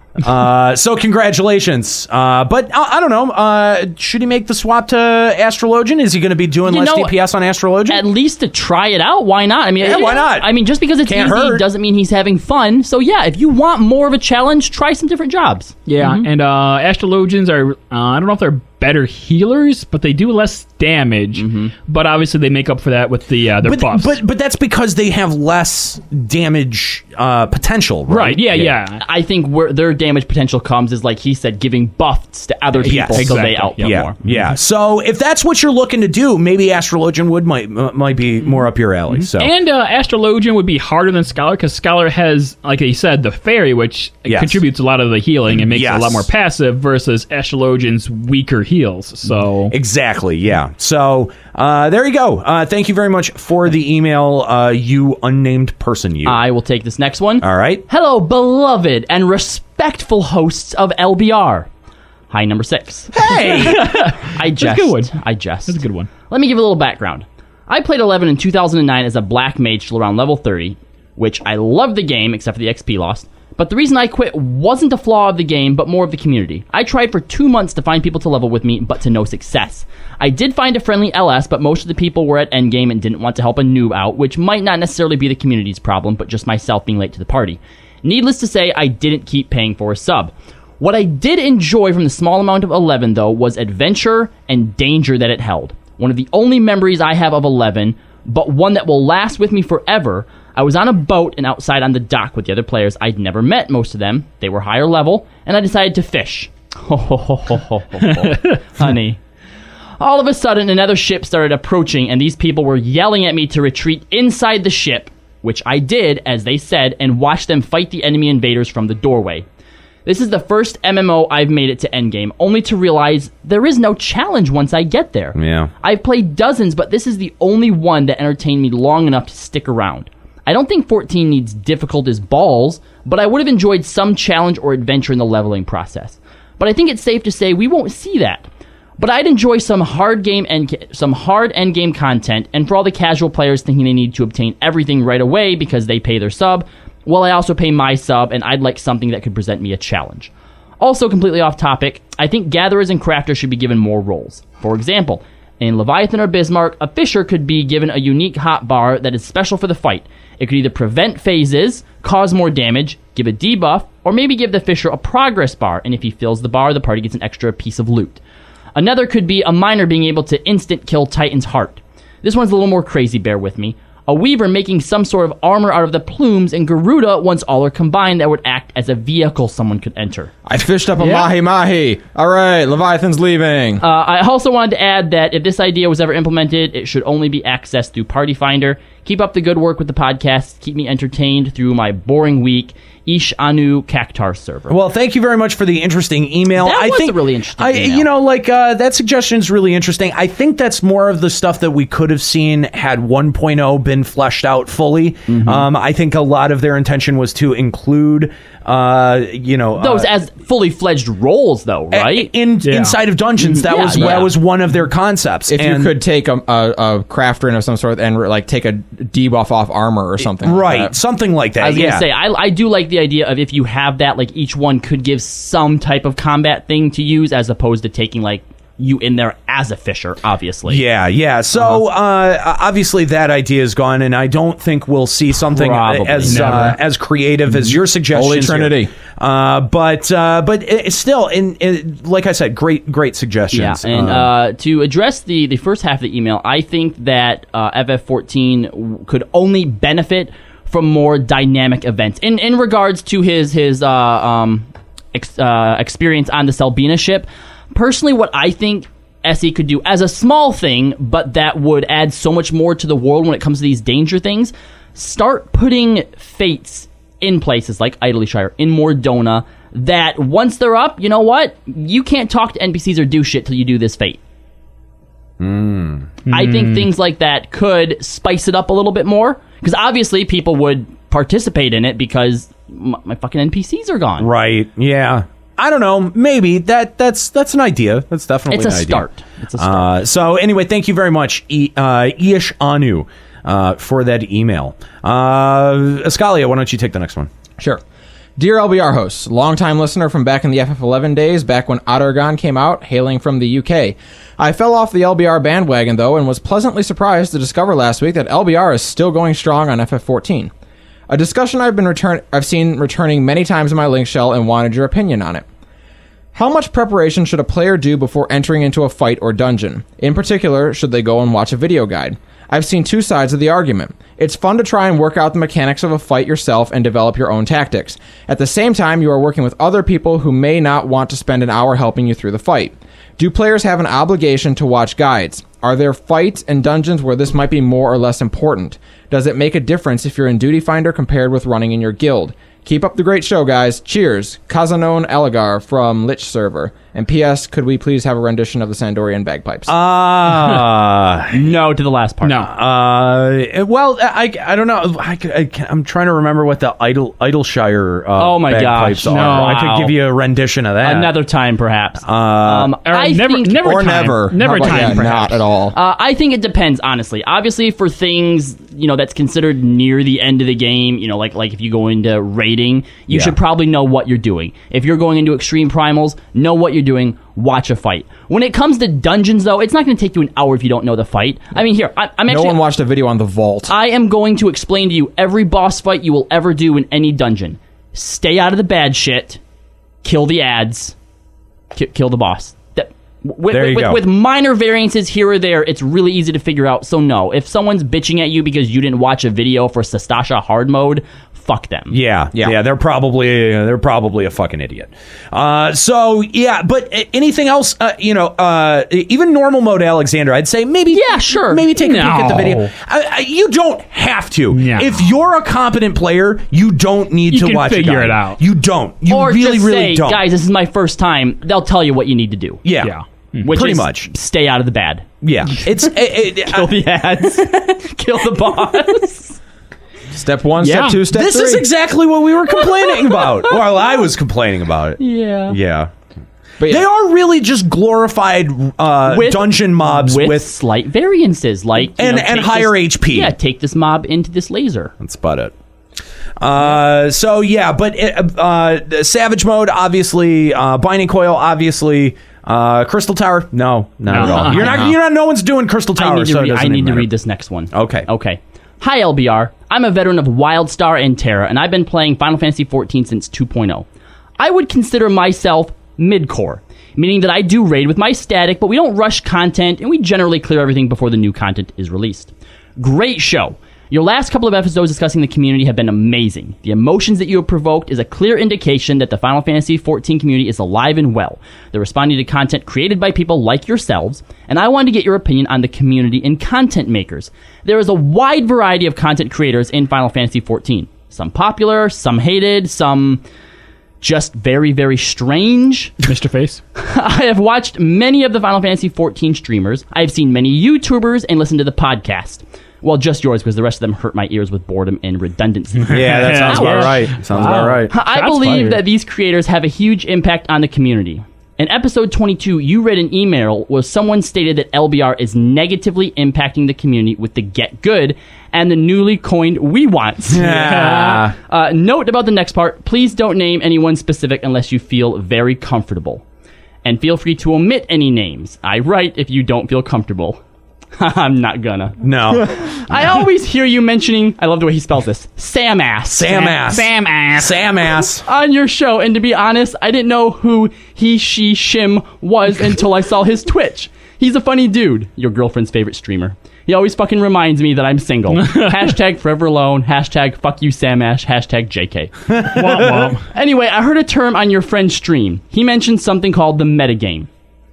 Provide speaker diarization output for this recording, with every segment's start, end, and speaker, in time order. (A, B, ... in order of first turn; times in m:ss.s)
0:00.2-0:08.0 A
0:06.6-0:07.1 B
0:07.9-0:16.3 B
0:09.8-0:11.6 A
0:15.9-0:24.1 C
0:21.3-0:21.7 B
0:23.6-0:28.8 A
0:28.1-0:29.0 C
0:29.0-0:34.2 B
0:32.8-0:34.3 C
0:32.8-0:39.5 A
0:39.2-0:49.7 C
0:44.3-0:44.6 A
0:45.7-0:46.3 A
0:49.7-0:56.4 A
0:56.2-1:01.7 B
0:57.4-0:57.8 A
1:02.3-1:03.2 B
1:03.1-1:03.9 A
1:03.3-1:05.1 C
1:03.8-1:49.2 B
1:05.7-1:06.1 C
1:50.0-1:59.4 B
2:00.0-2:18.5 B
2:05.3-2:05.7 A
2:19.0-2:48.2 B
2:48.8-3:00.3 B
3:00.4-3:03.8 D
3:03.8-3:14.8 B
3:14.7-3:30.1 A
3:16.6-3:18.1 B
3:25.3-3:25.6 B
3:29.8-3:32.3 B
3:31.9-3:35.9 A
3:32.6-3:33.0 C
3:33.4-3:34.3 B
3:35.5-3:40.9 D
3:40.4-3:42.1 A
3:41.6-3:50.8 B
3:50.7-4:04.3 A
3:55.5-3:56.6 B
3:56.3-3:56.8 C
3:57.6-3:58.9 D
4:03.5-4:34.2 B
4:35.4-4:36.1 A
4:36.2-4:36.9 C
4:36.3-4:44.3 B
4:44.2-4:57.3 A
4:48.5-4:49.9 B
4:58.4-5:10.5 D
5:11.1-5:15.4 D
5:16.3-5:49.7 D
5:49.7-5:51.5 A
5:51.3-5:52.4 B
5:52.2-5:52.5 C
5:52.4-6:01.1 A
5:58.2-5:59.9 B
5:59.1-5:59.6 C
6:00.8-6:03.8 B
6:02.0-6:02.7 A
6:02.8-6:05.4 C
6:03.6-6:05.7 D
6:05.7-6:22.6 B
6:22.2-6:23.7 D
6:23.7-6:29.4 B
6:30.0-6:30.9 B
6:31.7-6:42.0 B
6:33.5-6:34.0 A
6:41.9-7:00.2 A
6:50.9-6:51.6 B
6:51.8-6:52.7 C
6:54.5-6:54.9 C
6:57.3-6:58.4 C
6:59.1-7:02.6 B
7:02.6-7:02.9 A
7:02.8-7:03.5 C
7:03.4-7:05.0 B
7:03.5-7:04.1 A
7:05.2-7:06.7 A
7:06.4-7:09.4 B
7:10.1-7:11.6 D
7:10.6-7:11.0 C
7:11.1-7:15.9 A
7:12.8-7:13.6 B
7:15.0-7:15.6 B
7:16.7-7:20.5 A
7:19.0-7:24.9 B
7:21.9-7:23.3 A
7:25.0-7:25.5 A
7:26.4-7:37.1 A
7:34.1-7:34.9 C
7:34.2-7:34.8 B
7:36.0-7:43.8 B
7:37.7-7:38.1 A
7:44.4-8:13.2 B
8:14.0-8:15.9 B
8:16.0-8:16.6 C
8:16.8-8:46.2 B
8:25.8-8:28.8 C
8:25.9-8:27.9 A
8:40.3-8:41.3 A
8:40.5-8:41.2 C
8:46.8-8:50.4 B
8:51.0-8:52.0 B
8:52.0-8:53.0 A
8:52.7-8:56.6 B
8:56.1-8:58.2 A
8:56.5-8:57.6 C
8:58.2-9:12.6 B
9:08.4-9:08.9 C
9:12.3-9:13.1 A
9:12.4-9:13.2 C
9:13.3-9:17.3 B